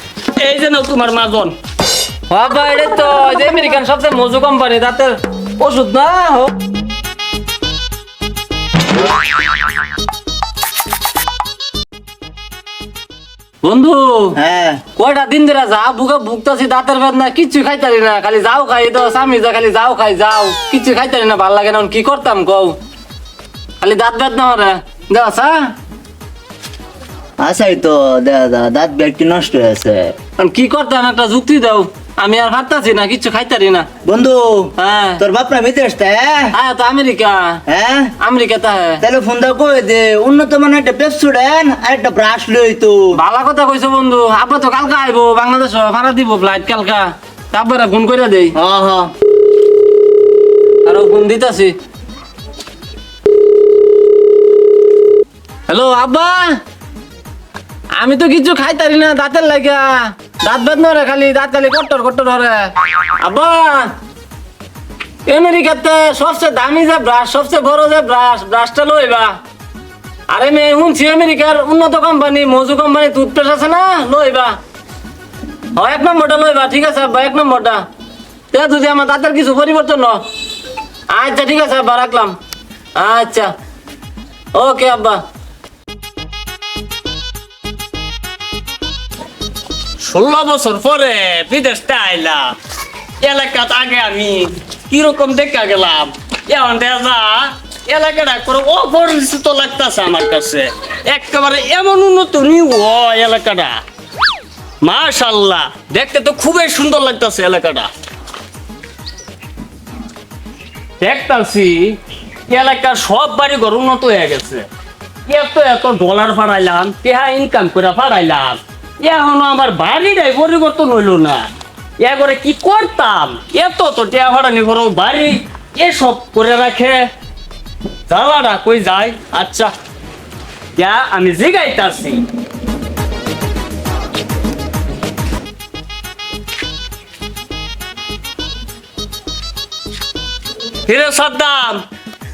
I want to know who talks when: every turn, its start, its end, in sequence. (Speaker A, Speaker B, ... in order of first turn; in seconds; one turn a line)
Speaker A: 0.4-1.5
Speaker B: 2.3-6.5
Speaker B: 13.6-14.3
Speaker C: 14.3-14.8
Speaker B: 15.0-22.7
Speaker B: 23.8-25.7
Speaker C: 27.4-30.1
Speaker B: 30.4-33.9
Speaker C: 34.0-36.5
Speaker B: 34.8-35.2
Speaker B: 36.5-37.6
Speaker C: 37.7-38.1
Speaker B: 38.2-39.0
Speaker C: 39.0-43.1
Speaker B: 43.1-48.5
Speaker C: 48.5-49.1
Speaker B: 50.8-51.7
Speaker B: 55.7-56.6
Speaker B: 58.0-63.9
Speaker B: 65.3-69.3
Speaker B: 70.3-74.6
Speaker B: 75.8-77.8
Speaker B: 78.5-80.2
Speaker B: 81.1-82.3
Speaker B: 83.0-83.5
Speaker B: 84.5-85.2
Speaker A: 90.0-92.5
Speaker A: 93.2-103.8
Speaker A: 104.8-107.9
Speaker A: 111.0-112.0
Speaker A: 112.5-114.7
Speaker A: 115.3-121.5
Speaker A: 122.0-127.1
Speaker A: 128.1-129.7
Speaker A: 130.8-132.2
Speaker A: 140.9-141.8